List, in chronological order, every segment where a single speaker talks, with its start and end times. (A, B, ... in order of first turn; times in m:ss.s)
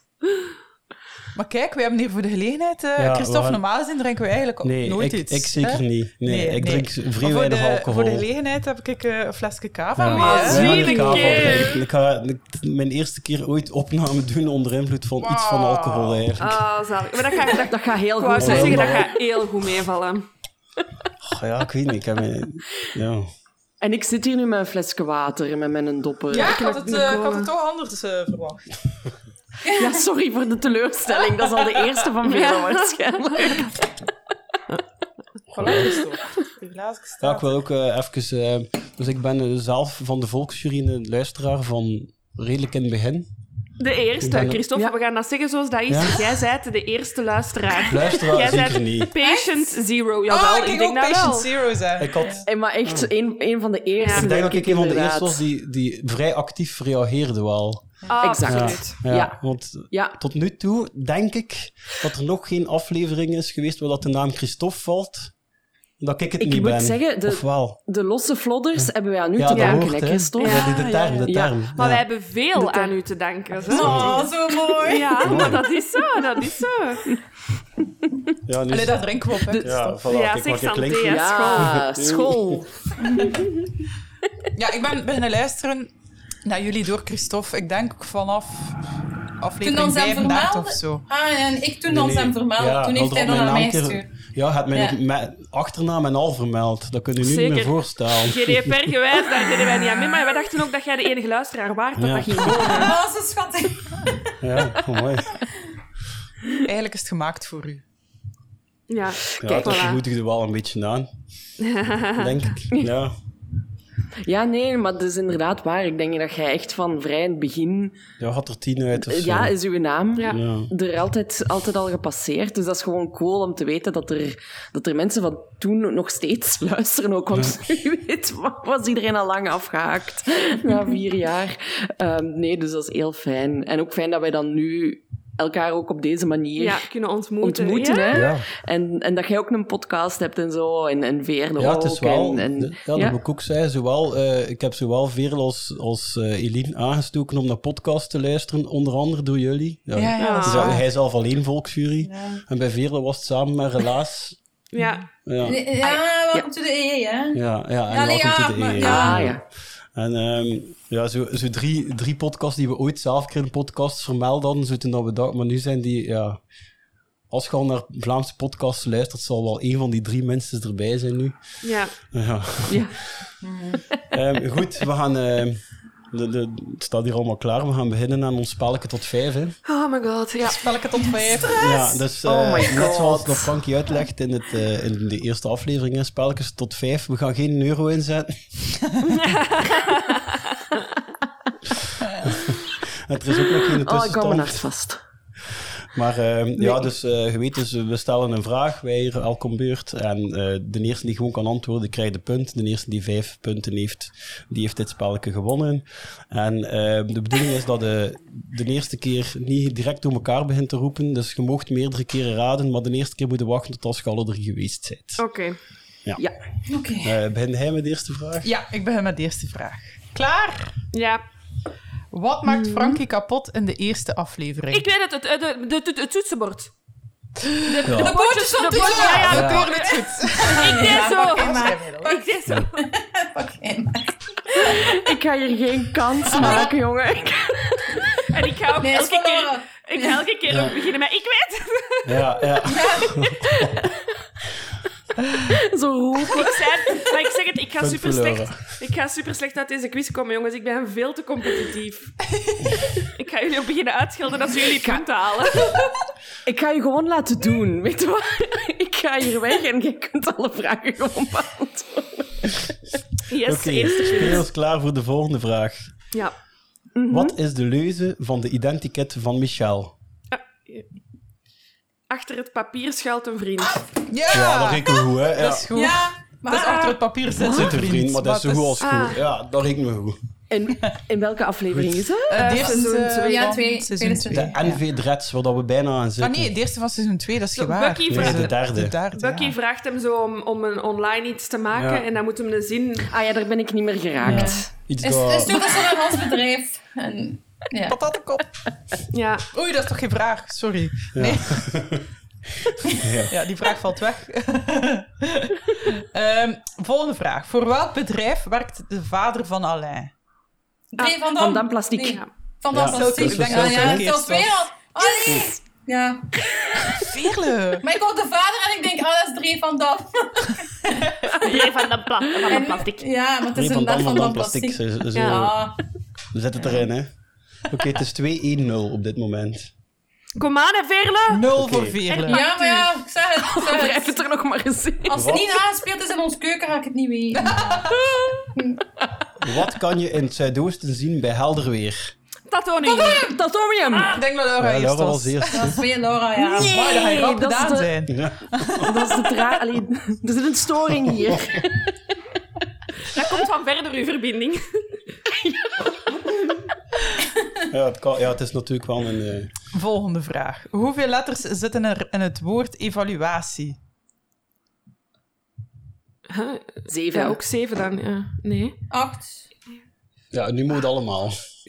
0:01.4-0:11.6 A
0:03.0-0:03.6 B
0:04.6-0:08.3 B
0:10.0-0:16.6 B
0:10.1-0:11.8 C
0:15.2-0:16.4 A
0:16.4-0:20.3 C
0:17.5-0:19.1 D
0:18.4-0:19.1 B
0:21.2-0:23.3 B
0:23.8-0:26.6 D
0:26.3-0:27.5 C
0:26.3-0:28.7 A
0:29.7-0:33.8 D
0:31.3-0:31.9 A
0:32.2-0:33.7 C
0:35.5-0:37.5 A
0:37.2-0:43.3 B
0:43.8-0:51.6 C
0:44.2-0:44.6 B
0:45.9-0:46.2 B
0:47.9-0:49.1 B
0:50.3-0:52.5 A
0:52.0-0:53.1 B
0:52.5-0:55.4 D
0:54.0-0:54.3 C
0:54.1-0:57.9 B
0:58.1-0:59.0 C
0:58.2-1:00.2 D
0:58.5-1:05.3 B
1:06.0-1:07.8 B
1:06.4-1:11.6 D
1:08.8-1:12.0 B
1:09.5-1:09.8 C
1:10.4-1:11.1 C
1:10.8-1:11.2 A
1:11.8-1:14.1 C
1:12.6-1:12.9 D
1:13.7-1:15.3 E
1:13.7-1:14.0 A
1:13.8-1:14.2 B
1:14.8-1:17.1 C
1:15.2-1:15.6 B
1:18.5-1:19.0 B
1:18.7-1:19.9 A
1:19.5-1:19.8 D
1:19.6-1:22.6 B
1:20.1-1:21.8 C
1:21.1-1:22.7 D
1:23.0-1:23.4 E
1:24.6-1:25.9 A
1:26.4-1:28.8 A
1:29.4-1:31.0 A
1:29.6-1:34.1 E
1:31.9-1:38.9 B
1:37.2-1:43.0 C
1:42.0-1:42.9 B
1:42.6-1:44.3 E
1:44.4-1:45.4 B
1:46.6-1:47.8 A
1:48.9-1:50.0 C
1:49.4-1:51.1 B
1:49.5-1:49.8 D
1:51.6-1:52.5 C
1:52.2-1:53.1 B
1:54.2-1:58.0 D
1:58.2-1:59.5 B
1:59.0-2:16.8 D
2:00.2-2:00.4 C
2:00.3-2:00.7 B
2:16.6-2:18.2 C
2:17.4-2:23.2 D
2:18.1-2:18.5 B
2:21.6-2:34.4 B
2:30.0-2:30.8 A
2:30.2-2:30.8 C
2:32.0-2:32.4 E
2:34.7-2:35.1 C
2:35.2-2:35.6 B
2:35.4-2:39.3 E
2:37.3-2:39.4 B
2:38.8-2:39.4 D
2:39.9-2:46.4 B
2:47.3-2:53.2 B
2:51.6-2:52.0 C
2:52.7-2:53.0 D
2:53.4-2:53.8 E
2:54.1-2:59.6 B
2:59.7-3:00.7 C
3:00.4-3:02.0 A
3:01.5-3:08.4 B
3:02.2-3:03.5 D
3:09.1-3:10.8 C
3:11.7-3:14.6 B
3:13.8-3:15.0 D
3:15.9-3:35.2 B
3:16.6-3:16.9 D
3:35.2-3:35.6 C
3:36.7-3:37.2 E
3:37.0-3:38.5 B
3:38.4-3:40.7 A
3:40.9-3:41.2 C
3:42.1-3:44.9 A
3:44.7-3:46.7 C
3:47.7-3:49.5 E
3:47.9-3:48.1 B
3:47.9-3:52.9 C
3:48.7-3:52.2 A
3:49.3-3:49.7 B
3:50.4-3:52.2 E
3:52.8-3:54.8 E
3:54.6-3:58.0 D
3:56.4-3:56.7 A
3:58.3-4:02.3 C
3:58.8-4:00.2 E
4:00.5-4:00.7 B
4:02.1-4:03.8 B
4:02.7-4:03.2 E
4:05.5-4:07.1 D
4:06.2-4:12.2 C
4:07.8-4:08.8 B
4:12.5-4:12.8 A
4:13.1-4:15.8 C
4:14.7-4:15.0 D
4:16.5-4:22.6 D
4:23.3-4:24.4 C
4:23.4-4:25.9 B
4:27.0-4:27.4 D
4:27.1-4:29.9 B
4:30.3-4:30.9 C
4:32.1-4:33.8 C
4:34.1-4:38.9 A
4:34.3-4:35.7 B
4:35.7-4:37.0 E
4:37.4-4:37.7 D
4:37.4-4:40.2 B
4:38.8-4:39.2 C
4:40.5-4:42.6 D
4:41.7-4:42.0 B
4:42.3-4:44.8 A
4:42.3-4:43.6 C
4:42.6-4:44.6 E
4:44.3-4:46.5 B
4:46.2-4:49.5 A
4:47.6-4:48.6 C
4:48.1-4:49.0 B
4:49.1-4:53.1 C
4:51.8-4:52.0 B
4:53.1-4:54.7 D
4:54.3-4:55.6 B
4:54.3-4:58.0 E
4:57.9-4:58.4 A
4:59.1-4:59.5 C
4:59.5-5:01.7 A
5:01.2-5:02.0 B
5:02.6-5:03.3 B
5:03.3-5:10.1 A
5:10.9-5:16.3 E
5:11.4-5:12.2 D
5:12.7-5:14.1 B
5:12.8-5:14.5 A
5:16.9-5:17.8 A
5:17.8-5:21.6 E
5:21.4-5:23.1 C
5:22.5-5:25.8 E
5:23.5-5:25.6 B
5:25.2-5:25.5 C
5:26.3-5:27.1 B
5:27.7-5:29.7 B
5:30.4-5:31.5 C
5:31.3-5:32.6 A
5:31.5-5:32.0 B
5:32.1-5:32.8 C
5:32.3-5:34.2 E
5:33.5-5:35.3 D
5:35.1-5:38.0 E
5:35.1-5:35.5 B
5:37.3-5:38.1 A
5:38.5-5:38.8 E
5:39.4-5:42.1 B
5:42.5-5:43.2 C
5:42.8-5:43.4 E
5:43.1-5:44.2 D
5:43.9-5:45.7 A
5:44.6-5:45.8 B
5:45.5-5:46.7 E
5:46.4-5:48.0 D
5:46.6-5:49.5 A
5:48.1-5:48.8 B
5:48.8-5:51.9 D
5:51.1-5:51.4 B
5:53.1-5:55.0 C
5:57.7-5:59.5 B
5:59.7-6:03.8 A
6:06.3-6:08.8 C
6:06.9-6:07.4 D
6:08.9-6:09.4 E
6:10.3-6:11.4 B